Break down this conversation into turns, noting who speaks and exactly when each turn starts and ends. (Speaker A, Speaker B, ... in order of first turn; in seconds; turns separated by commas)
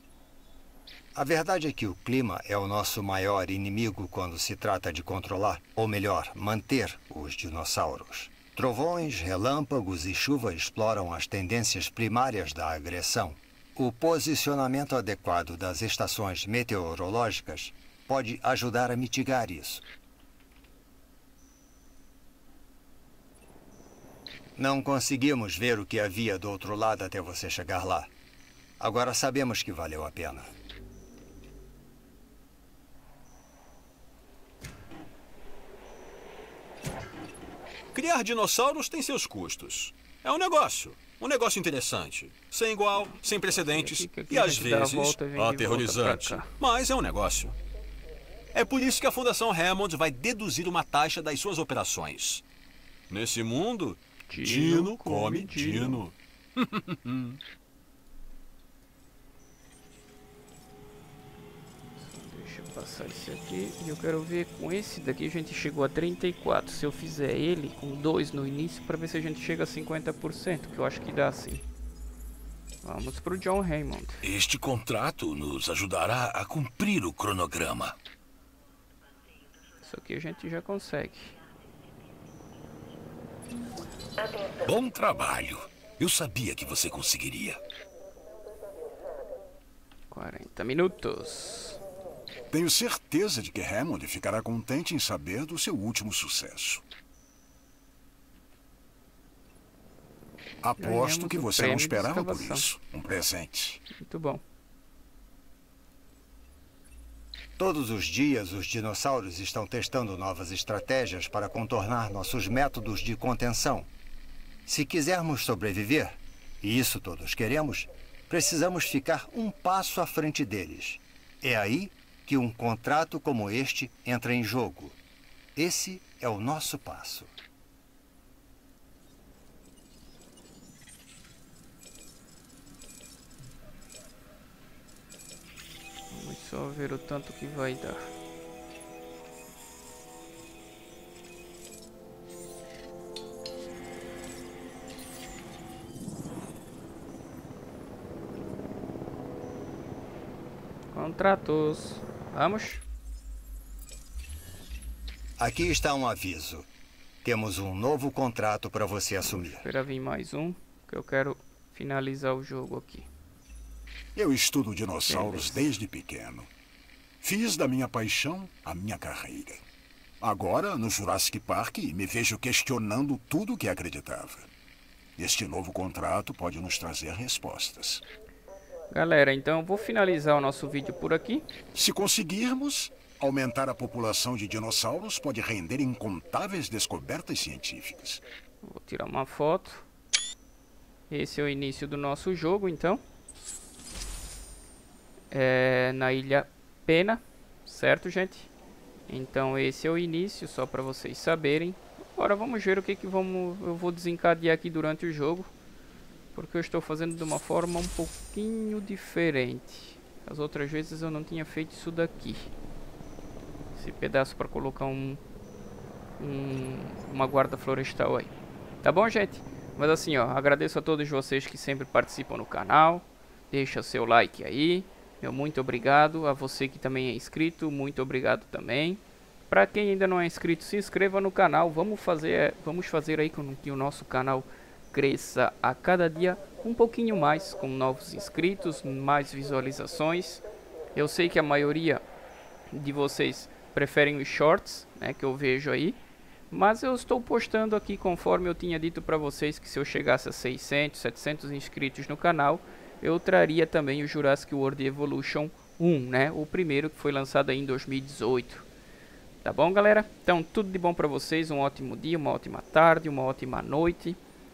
Speaker A: 1.1-19.8, Speaker A: 24.6-28.1, Speaker A: 28.8-30.5, Speaker B: 37.9-47.5, Speaker C: 43.0-46.5, Speaker B: 48.5-52.4, Speaker B: 53.1-57.4, Speaker C: 54.3-56.0, Speaker C: 62.0-71.6, Speaker C: 72.8-74.2, Speaker D: 74.2-77.9, Speaker C: 79.8-81.3, Speaker D: 84.6-87.6, Speaker C: 90.1-91.8, Speaker E: 92.5-96.8, Speaker E: 100.6-103.8, Speaker C: 100.8-102.7, Speaker C: 103.9-104.4, Speaker A: 107.6-113.9, Speaker A: 114.7-125.0, Speaker A: 125.5-127.3, Speaker C: 136.1-138.0, Speaker C: 150.9-152.8, Speaker A: 155.4-156.7, Speaker A: 157.2-159.6, Speaker C: 159.2-163.1, Speaker E: 164.1-166.5, Speaker C: 165.1-165.7, Speaker E: 167.2-169.6, Speaker E: 170.2-174.5, Speaker E: 175.2-178.0, Speaker C: 178.9-181.4, Speaker E: 181.7-188.2, Speaker C: 188.6-189.8, Speaker C: 191.1-193.0, Speaker C: 195.3-198.5, Speaker C: 199.1-205.5, Speaker C: 206.3-212.5, Speaker C: 213.7-215.2, Speaker C: 216.2-218.3, Speaker C: 218.8-242.0, Speaker C: 242.7-246.0, Speaker C: 246.5-258.6, Speaker C: 259.4-264.2